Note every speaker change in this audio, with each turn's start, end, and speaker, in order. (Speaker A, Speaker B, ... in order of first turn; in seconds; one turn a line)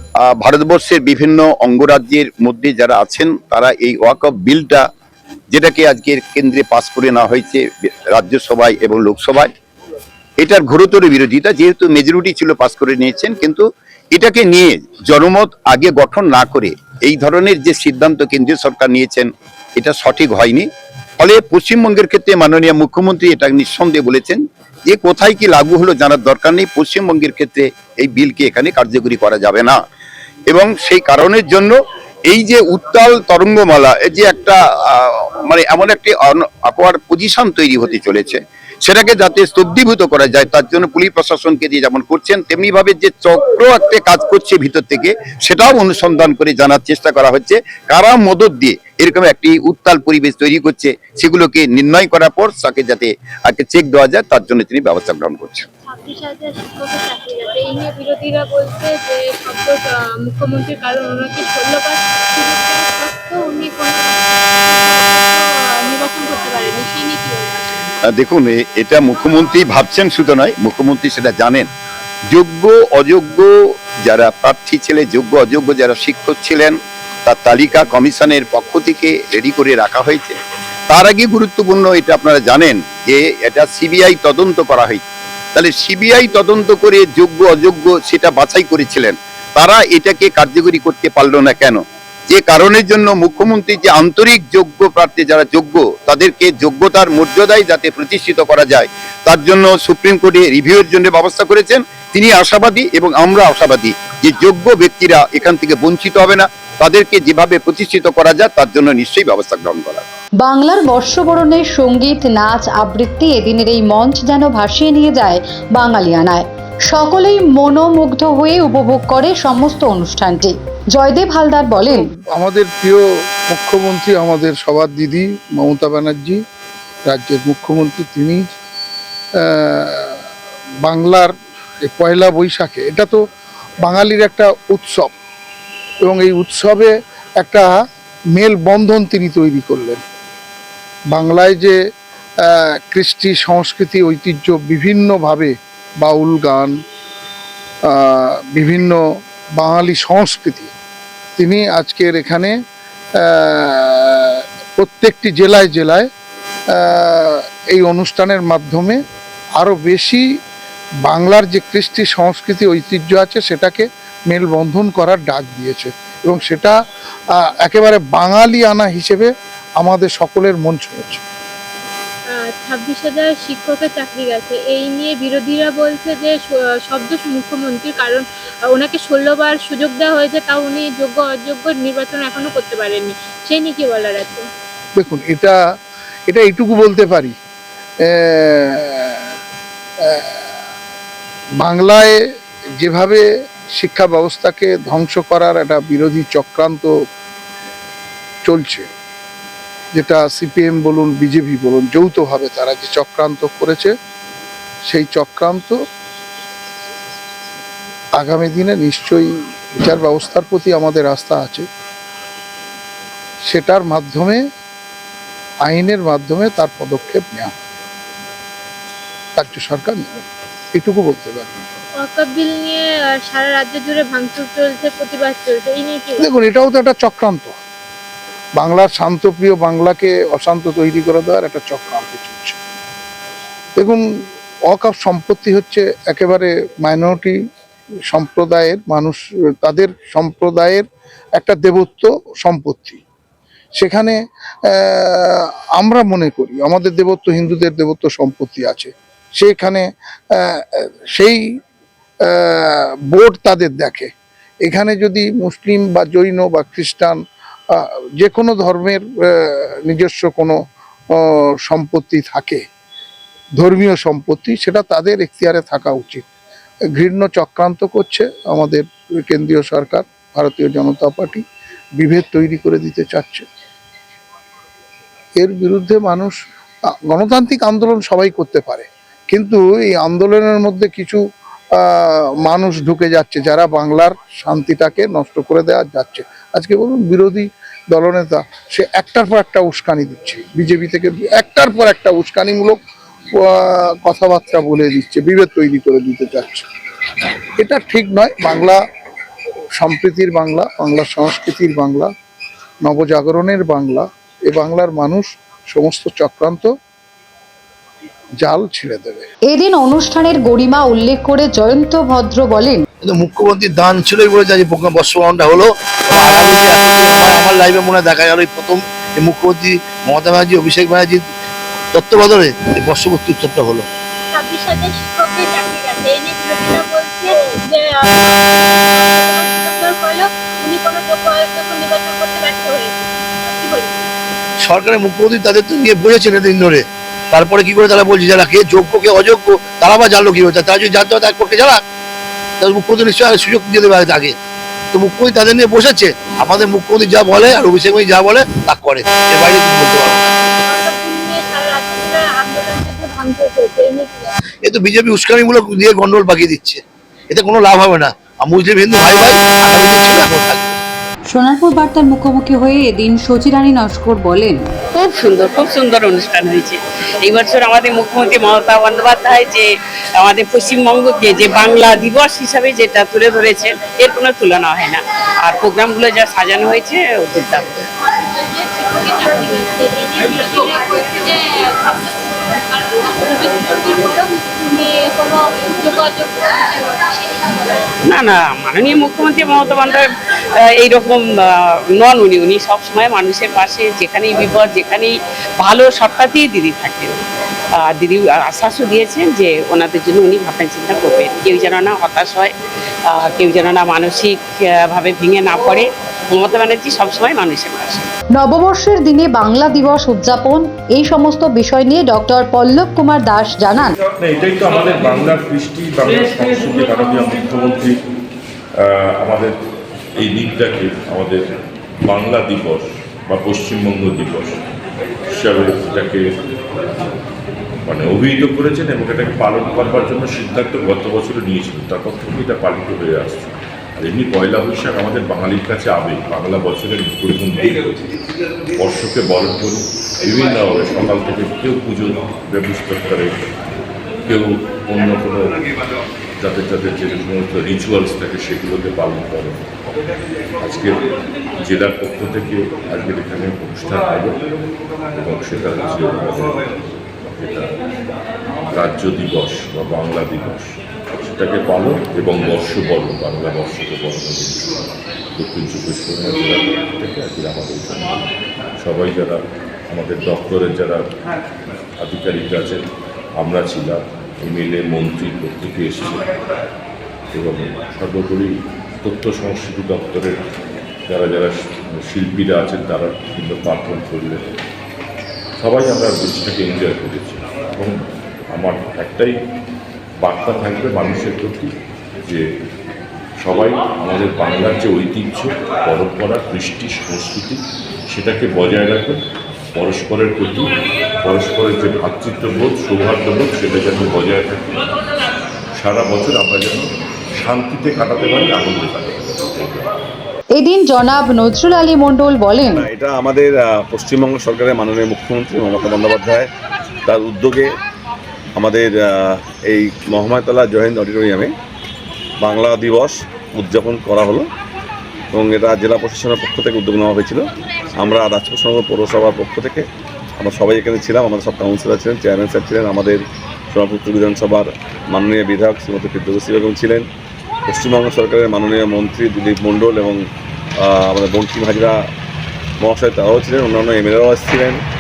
Speaker A: 0.2-4.8
Speaker A: 5.5-7.6
Speaker A: 8.2-9.5
Speaker A: 10.4-20.7
Speaker A: 21.2-29.8
Speaker A: 30.5-31.8
Speaker A: 32.3-55.6
Speaker B: 55.9-67.6
Speaker A: 68.1-71.7
Speaker A: 72.3-73.5
Speaker A: 74.0-76.8
Speaker A: 77.3-80.4
Speaker A: 80.9-85.0
Speaker A: 85.5-110.0
Speaker C: 110.4-122.0
Speaker D: 122.0-126.4
Speaker D: 127.1-128.4
Speaker D: 129.4-130.2
Speaker D: 130.8-131.3
Speaker D: 131.8-133.2
Speaker D: 133.8-135.1
Speaker D: 136.0-137.8
Speaker D: 138.3-140.0
Speaker D: 141.1-141.8
Speaker D: 142.5-146.8
Speaker D: 147.9-149.0
Speaker D: 149.6-150.7
Speaker D: 151.4-152.6
Speaker D: 153.2-156.1
Speaker D: 156.7-159.0
Speaker D: 159.6-160.2
Speaker D: 161.1-166.8
Speaker D: 167.4-171.2
Speaker B: 172.4-184.5
Speaker D: 185.0-185.6
Speaker D: 186.3-187.3
Speaker D: 188.1-189.3
Speaker D: 190.1-190.4
Speaker D: 191.6-192.2
Speaker D: 192.8-196.9
Speaker D: 198.5-198.9
Speaker D: 199.9-203.9
Speaker D: 204.9-205.8
Speaker D: 208.2-211.7
Speaker D: 213.5-214.5
Speaker D: 215.7-217.6
Speaker D: 219.4-221.7
Speaker B: 222.0-226.3
Speaker D: 226.2-227.6
Speaker D: 228.6-232.6
Speaker D: 233.8-234.0
Speaker D: 234.7-237.4
Speaker D: 238.1-240.9
Speaker D: 241.4-243.0
Speaker D: 243.8-251.4
Speaker D: 252.3-254.1
Speaker D: 254.7-257.2
Speaker D: 257.7-260.6
Speaker D: 261.1-262.6
Speaker D: 263.6-266.2
Speaker D: 267.0-271.4
Speaker D: 272.0-273.5
Speaker D: 275.4-276.4
Speaker D: 277.1-281.2
Speaker D: 281.8-292.8
Speaker D: 293.4-296.6
Speaker D: 297.6-298.8
Speaker D: 299.8-302.1
Speaker D: 302.8-306.7
Speaker D: 308.4-309.3
Speaker C: 309.5-312.8
Speaker E: 313.0-321.3
Speaker E: 321.9-323.9
Speaker B: 324.3-334.1
Speaker E: 334.6-341.8
Speaker E: 342.6-344.4
Speaker E: 344.9-350.4
Speaker B: 350.7-354.3
Speaker E: 354.6-360.8
Speaker C: 361.3-364.6
Speaker F: 364.9-377.7
Speaker B: 378.4-387.9
Speaker F: 388.1-390.1
Speaker F: 390.6-397.2
Speaker F: 397.8-402.5
Speaker F: 403.1-408.1
Speaker C: 408.4-414.0
Speaker G: 414.2-418.0
Speaker G: 418.8-419.6
Speaker G: 420.2-421.4
Speaker G: 422.1-424.6
Speaker G: 425.3-426.3
Speaker G: 427.9-438.1
Speaker G: 438.7-443.4
Speaker G: 444.3-445.6
Speaker G: 446.4-449.6
Speaker G: 450.6-451.0
Speaker G: 451.6-454.4
Speaker G: 455.1-457.8
Speaker G: 458.7-464.8
Speaker G: 465.4-468.2
Speaker G: 468.8-469.4
Speaker G: 469.9-471.0
Speaker G: 472.0-472.8
Speaker G: 473.4-476.3
Speaker G: 477.3-478.5
Speaker G: 479.0-480.4
Speaker G: 481.1-484.5
Speaker G: 485.6-489.4
Speaker G: 490.2-491.7
Speaker G: 493.4-499.2
Speaker G: 499.8-504.9
Speaker G: 505.8-506.9
Speaker G: 507.4-509.9
Speaker C: 510.6-512.9
Speaker H: 512.8-516.5
Speaker H: 517.1-517.8
Speaker H: 518.6-521.5
Speaker H: 522.4-524.5
Speaker H: 525.3-529.9
Speaker H: 530.4-537.1
Speaker H: 537.7-540.2
Speaker H: 540.8-542.0
Speaker H: 542.8-544.8